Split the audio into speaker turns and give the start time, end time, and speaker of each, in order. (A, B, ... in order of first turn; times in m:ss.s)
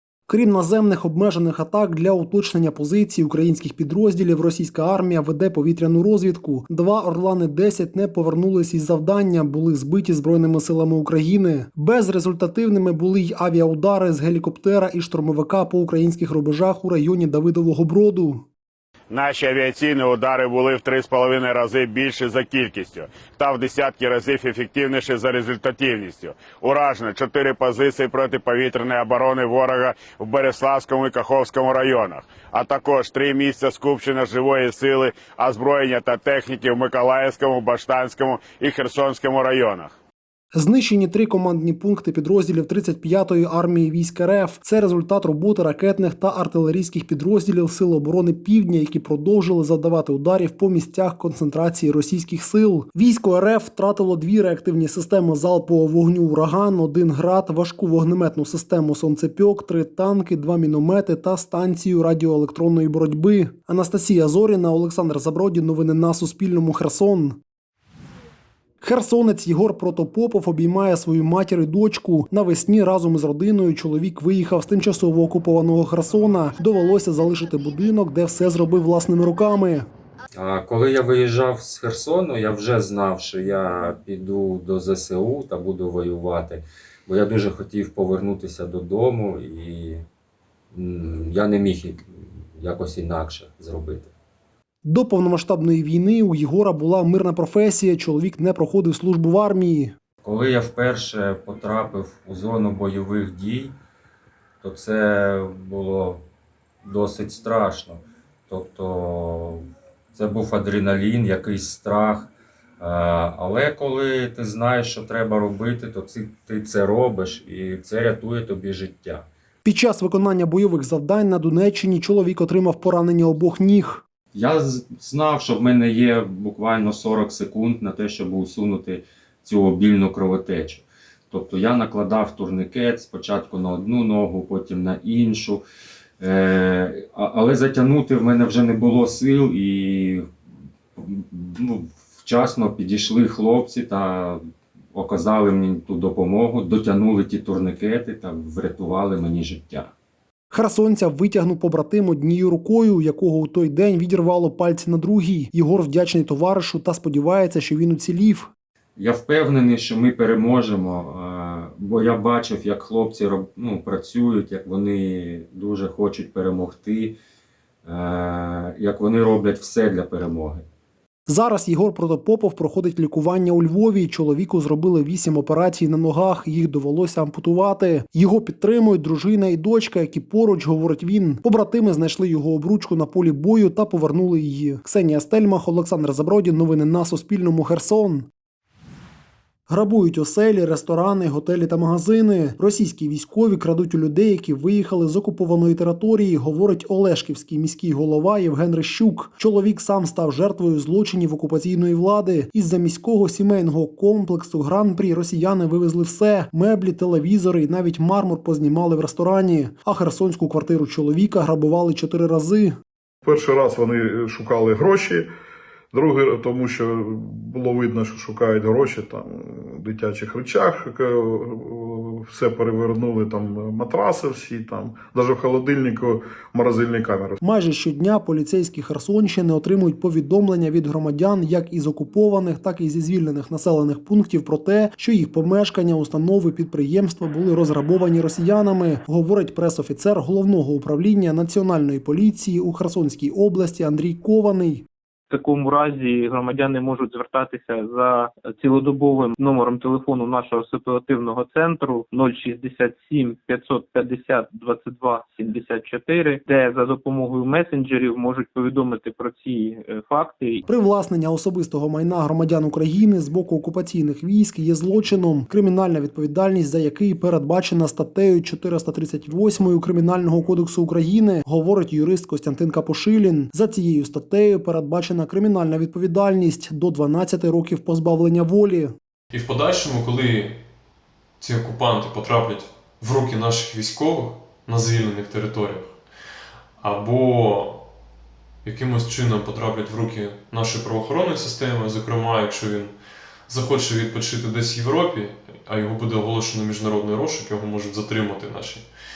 0:00.3-0:18.4 A
0:19.1-0:39.9 B
0:40.5-1:07.4 A
1:08.8-1:19.9 A
1:20.4-1:30.0 C
1:30.7-1:34.1 C
1:34.8-1:39.9 A
1:40.2-1:43.8 C
1:44.6-1:46.2 C
1:46.8-1:59.3 C
1:59.6-2:04.0 A
2:04.3-2:15.6 C
2:16.2-2:20.2 C
2:21.0-2:24.4 C
2:24.9-2:29.9 C
2:30.5-2:38.5 A
2:39.0-2:47.1 C
2:47.8-2:50.6 C
2:51.3-3:08.3 A
3:09.7-3:32.7 A
3:33.2-3:35.3 D
3:35.9-3:47.4 D
3:47.4-4:04.8 A
4:05.3-4:20.6 E
4:20.7-4:38.9 A
4:39.3-4:40.6 F
4:41.4-4:45.9 F
4:46.8-4:47.8 F
4:48.6-4:52.9 F
4:53.5-4:58.8 F